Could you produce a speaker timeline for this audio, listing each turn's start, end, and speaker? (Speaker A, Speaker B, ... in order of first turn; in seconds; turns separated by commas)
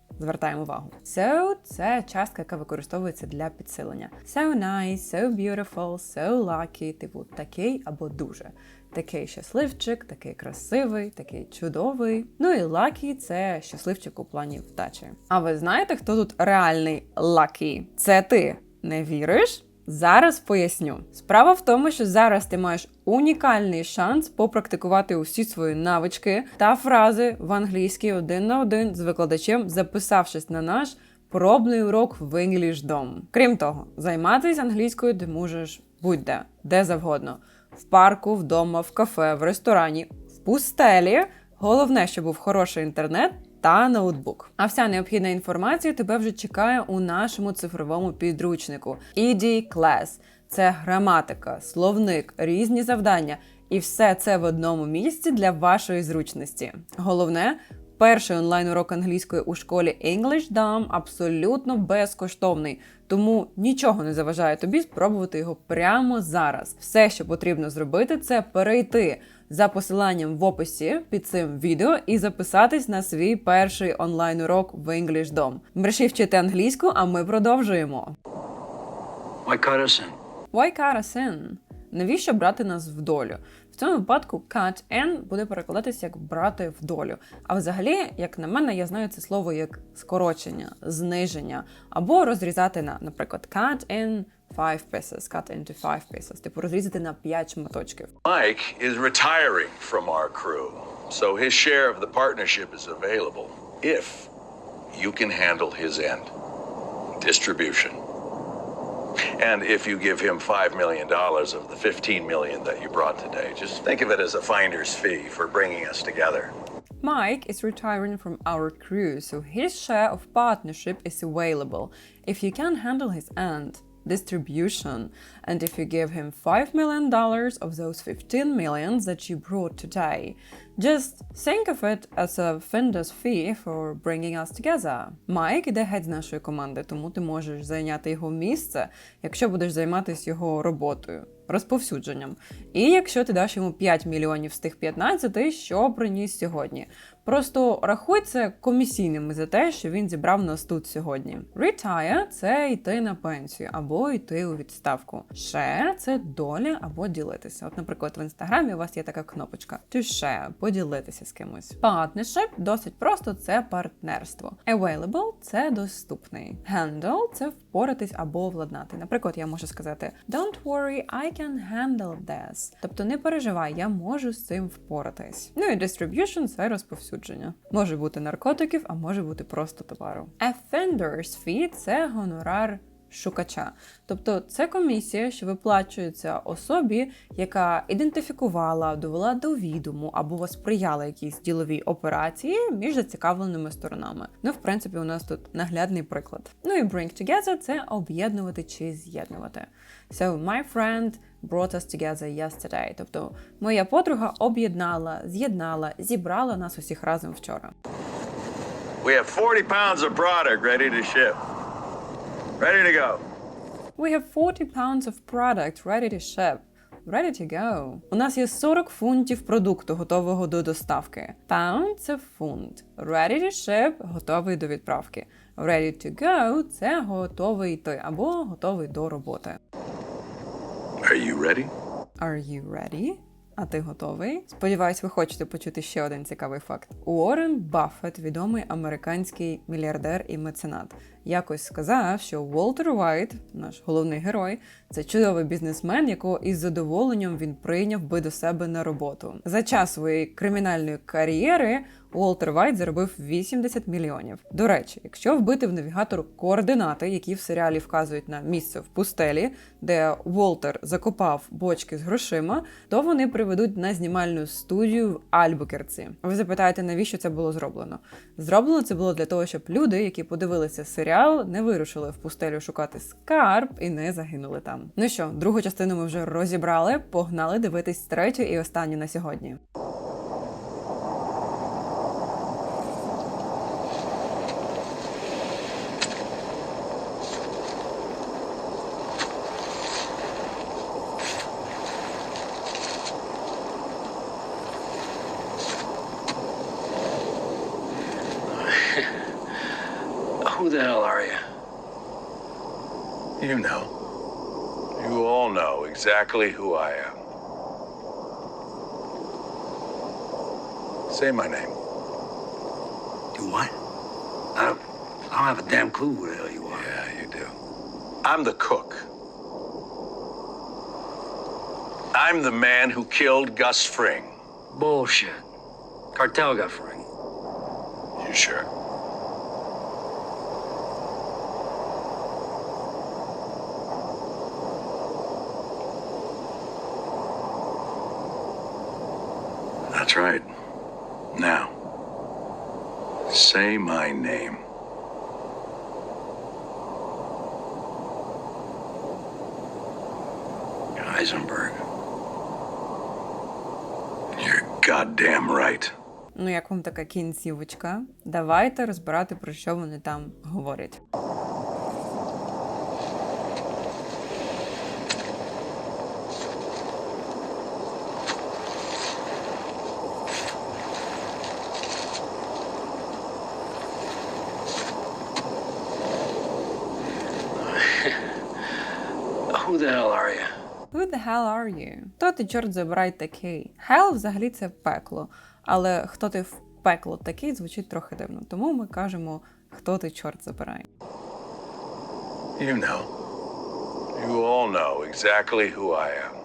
Speaker A: 0.2-78.1, Speaker B: 79.5-80.2, Speaker A: 80.5-98.1, Speaker C: 98.2-104.3, Speaker C: 104.9-106.3, Speaker C: 107.2-108.0, Speaker C: 109.4-116.5, Speaker A: 117.0-207.7, Speaker C: 209.0-211.4, Speaker C: 212.6-213.2, Speaker A: 214.0-229.6, Speaker C: 231.0-231.7, Speaker A: 232.2-279.6, Speaker B: 298.5-299.2, Speaker B: 300.4-301.4, Speaker C: 303.4-303.9, Speaker C: 305.0-307.2, Speaker C: 311.1-311.8, Speaker B: 313.3-313.7, Speaker B: 314.6-316.9, Speaker C: 316.7-317.6, Speaker C: 318.2-319.1, Speaker C: 322.1-324.4, Speaker B: 324.7-325.4, Speaker B: 326.1-327.1, Speaker C: 328.2-328.7, Speaker C: 339.9-340.5, Speaker C: 341.3-341.7, Speaker C: 343.3-344.6, Speaker B: 351.0-351.8, Speaker C: 354.4-355.9, Speaker A: 356.4-361.0, Speaker B: 377.6-378.3, Speaker B: 379.5-380.5, Speaker A: 380.9-390.9, Speaker C: 392.6-393.1, Speaker C: 394.1-396.4